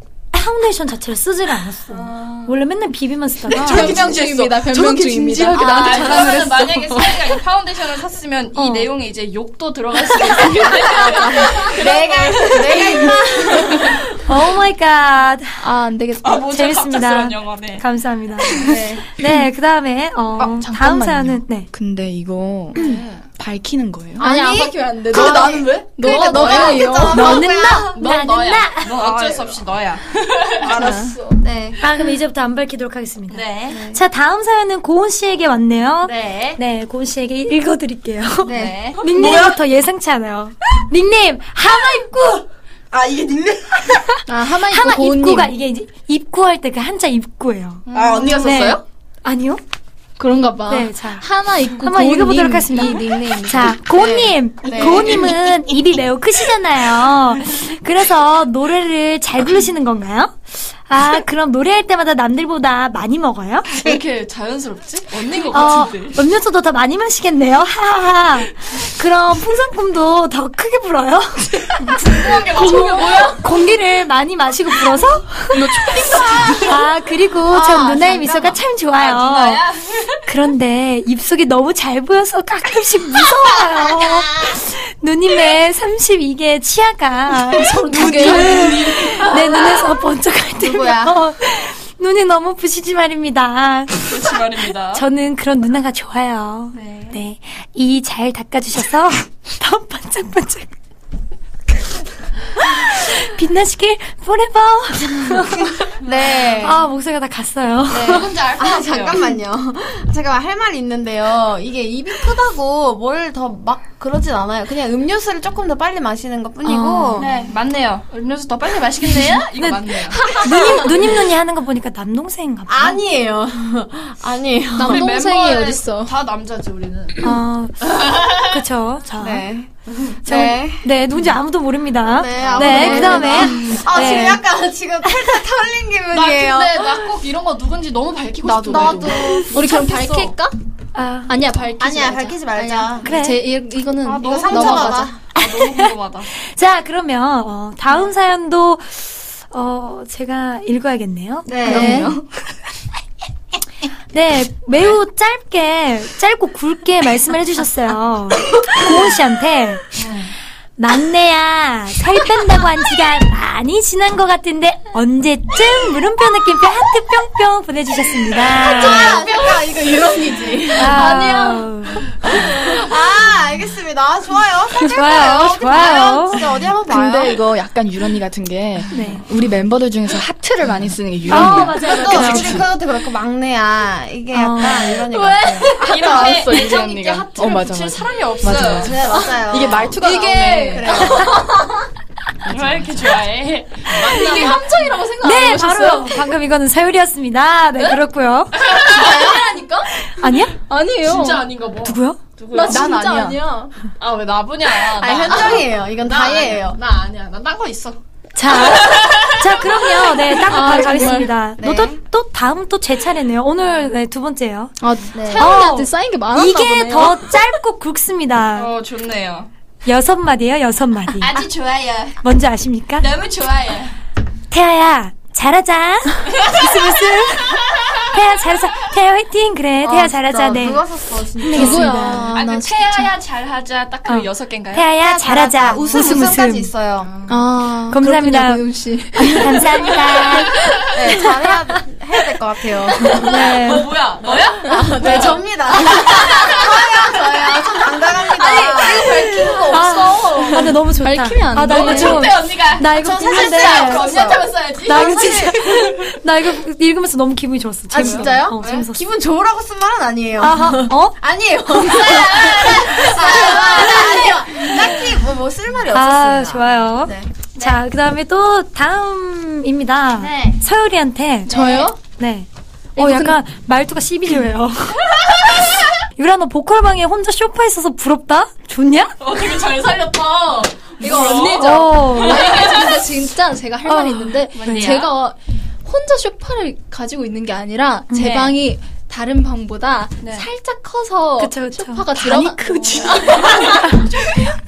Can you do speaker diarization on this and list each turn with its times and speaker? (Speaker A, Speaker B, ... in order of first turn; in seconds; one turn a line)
Speaker A: 0.3-4.0
Speaker B: 1.9-2.5
Speaker C: 3.5-7.2
Speaker D: 3.5-6.9
Speaker B: 5.5-13.9
Speaker E: 5.7-6.5
Speaker D: 8.6-8.9
Speaker E: 10.7-13.9
Speaker A: 14.2-15.6
Speaker D: 15.6-16.5
Speaker B: 16.2-17.8
Speaker A: 16.5-21.7
Speaker B: 18.4-18.8
Speaker E: 18.6-19.0
Speaker C: 20.4-24.3
Speaker B: 22.7-23.2
Speaker E: 24.1-29.5
Speaker D: 24.2-27.4
Speaker C: 25.1-26.3
Speaker B: 26.2-26.9
Speaker A: 27.1-29.1
Speaker B: 27.9-31.2
Speaker E: 30.7-32.0
Speaker D: 30.7-31.1
Speaker A: 31.8-42.4
Speaker B: 33.3-33.8
Speaker E: 33.7-34.0
Speaker B: 36.1-36.5
Speaker E: 36.1-36.6
Speaker E: 38.4-39.4
Speaker B: 38.5-39.1
Speaker C: 42.9-43.3
Speaker A: 43.9-47.8
Speaker D: 44.3-45.5
Speaker B: 47.9-48.4
Speaker C: 47.9-48.8
Speaker D: 48.0-48.4
Speaker E: 48.0-48.8
Speaker A: 48.4-49.6
Speaker D: 50.2-55.1
Speaker A: 50.7-51.3
Speaker A: 51.8-64.0
Speaker E: 54.6-55.4
Speaker B: 63.7-66.2
Speaker A: 65.5-75.6
Speaker B: 71.8-73.5
Speaker E: 72.6-73.3
Speaker C: 75.5-76.7
Speaker E: 76.1-76.6
Speaker A: 76.6-79.6
Speaker E: 77.5-78.6
Speaker B: 79.0-80.3
Speaker A: 80.2-94.2
Speaker E: 83.2-84.5
Speaker D: 87.5-88.7
Speaker E: 88.0-89.8
Speaker B: 88.0-89.8
Speaker E: 90.5-91.2
Speaker B: 94.0-95.0
Speaker A: 94.9-100.7
Speaker B: 96.7-97.2
Speaker A: 102.5-105.8
Speaker E: 105.6-106.8
Speaker A: 106.6-108.3
Speaker B: 107.9-109.2
Speaker E: 107.9-117.3
Speaker A: 116.6-117.3
Speaker B: 117.2-120.8
Speaker A: 119.6-123.0
Speaker E: 120.1-120.9
Speaker E: 122.7-125.0
Speaker D: 124.8-126.1
Speaker B: 124.8-127.3
Speaker A: 127.2-129.5
Speaker E: 129.2-129.7
Speaker B: 129.9-130.2
Speaker E: 130.2-130.9
Speaker A: 130.2-134.4
Speaker E: 132.1-136.8
Speaker B: 132.3-133.7
Speaker B: 136.1-140.3
Speaker E: 138.4-139.9
Speaker D: 139.5-140.6
Speaker A: 140.9-141.3
Speaker D: 141.3-145.1
Speaker E: 141.8-143.1
Speaker A: 143.0-143.4
Speaker E: 144.0-145.2
Speaker B: 144.2-146.3
Speaker A: 145.4-152.1
Speaker E: 151.4-152.1
Speaker D: 151.6-152.2
Speaker C: 151.7-152.2
Speaker A: 154.1-159.9
Speaker B: 160.0-160.3
Speaker A: 160.8-169.3
Speaker E: 168.6-171.2
Speaker A: 170.7-172.1
Speaker D: 170.9-171.7
Speaker E: 172.2-177.4
Speaker A: 174.9-176.4
Speaker C: 176.7-182.7
Speaker A: 178.9-179.2
Speaker A: 181.3-182.6
Speaker E: 181.3-186.9
Speaker A: 184.3-185.0
Speaker D: 185.3-185.8
Speaker B: 185.7-189.2
Speaker C: 185.8-190.9
Speaker E: 188.7-190.1
Speaker D: 190.0-191.4
Speaker E: 190.7-191.8
Speaker B: 192.4-194.8
Speaker D: 193.9-196.2
Speaker A: 195.2-198.6
Speaker B: 198.5-199.5
Speaker E: 198.8-199.4
Speaker D: 198.9-199.8
Speaker A: 199.9-200.6
Speaker D: 200.7-201.5
Speaker B: 201.0-202.9
Speaker A: 201.8-202.2
Speaker D: 202.5-203.7
Speaker C: 202.6-203.4
Speaker B: 204.0-208.0
Speaker E: 204.9-206.8
Speaker D: 205.3-205.6
Speaker A: 208.3-214.7
Speaker B: 208.5-210.4
Speaker D: 210.5-211.3
Speaker E: 211.6-212.0
Speaker B: 213.6-213.9
Speaker D: 214.8-217.3
Speaker E: 215.1-215.6
Speaker A: 215.3-218.7
Speaker B: 218.5-219.5
Speaker A: 219.8-221.3
Speaker B: 221.2-222.2
Speaker A: 222.2-223.1
Speaker B: 223.0-224.0
Speaker A: 224.5-230.8
Speaker B: 226.3-228.0
Speaker E: 229.8-232.3
Speaker A: 231.4-232.3
Speaker D: 231.5-233.1
Speaker B: 232.3-234.9
Speaker A: 234.1-236.7
Speaker E: 234.9-237.1
Speaker B: 235.6-236.3
Speaker B: 237.0-237.4
Speaker D: 237.3-240.2
Speaker A: 237.9-240.5
Speaker D: 240.8-241.6
Speaker E: 240.9-243.3
Speaker B: 243.0-247.7
Speaker A: 243.1-243.9
Speaker E: 244.7-250.7
Speaker D: 244.7-245.3
Speaker A: 248.7-254.1
Speaker B: 248.8-250.2
Speaker D: 250.9-252.3
Speaker B: 251.6-255.2
Speaker E: 251.8-255.9
Speaker A: 254.8-259.0
Speaker E: 257.9-267.3
Speaker B: 258.0-258.3
Speaker A: 260.4-261.2
Speaker A: 261.8-262.0
Speaker B: 261.9-264.7
Speaker A: 264.6-265.0
Speaker A: 265.9-279.1
Speaker E: 270.2-270.6
Speaker D: 271.5-272.0
Speaker E: 271.5-271.9
Speaker D: 272.9-273.4
Speaker B: 279.2-283.1
Speaker D: 281.0-294.0
Speaker A: 281.5-282.6
Speaker A: 283.8-284.9
Speaker B: 284.5-285.1
Speaker A: 288.1-288.4
Speaker B: 288.2-288.6
Speaker B: 290.2-290.5
Speaker A: 291.4-294.0
Speaker B: 292.7-294.4